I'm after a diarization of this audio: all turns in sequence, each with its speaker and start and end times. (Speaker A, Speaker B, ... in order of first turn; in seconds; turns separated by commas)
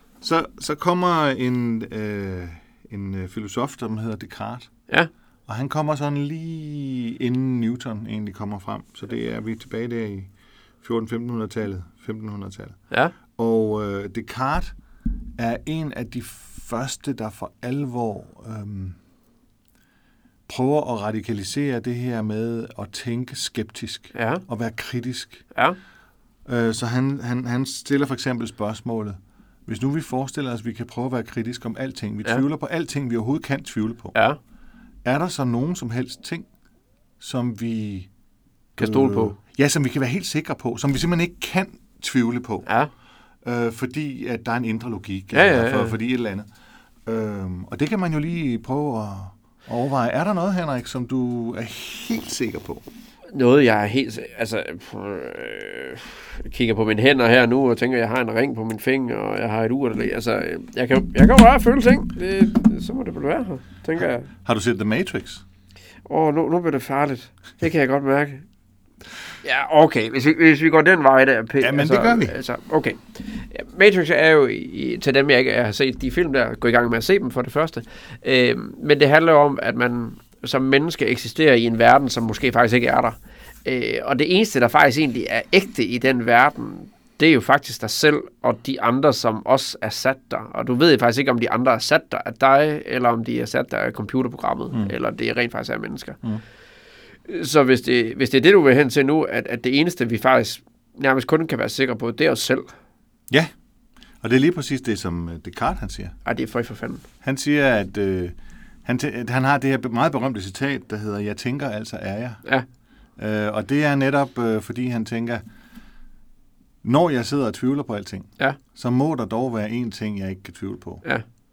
Speaker A: 0.2-4.7, Speaker A: 5.5-10.3, Speaker A: 10.8-12.8, Speaker A: 13.3-14.7, Speaker A: 15.4-19.0, Speaker A: 20.5-25.4, Speaker B: 24.1-24.4, Speaker A: 26.4-34.1, Speaker B: 34.1-34.4, Speaker A: 35.0-36.5, Speaker A: 37.2-38.1, Speaker A: 38.8-42.7, Speaker B: 38.8-39.3, Speaker A: 43.4-46.5, Speaker B: 45.3-46.0, Speaker A: 47.0-52.8, Speaker B: 53.3-64.3, Speaker A: 64.0-65.4, Speaker B: 66.1-68.4, Speaker B: 69.4-96.2, Speaker A: 71.6-72.4, Speaker B: 97.3-102.7, Speaker A: 104.2-106.1, Speaker B: 106.2-107.0, Speaker A: 107.2-112.4, Speaker A: 113.2-115.4, Speaker A: 116.8-121.0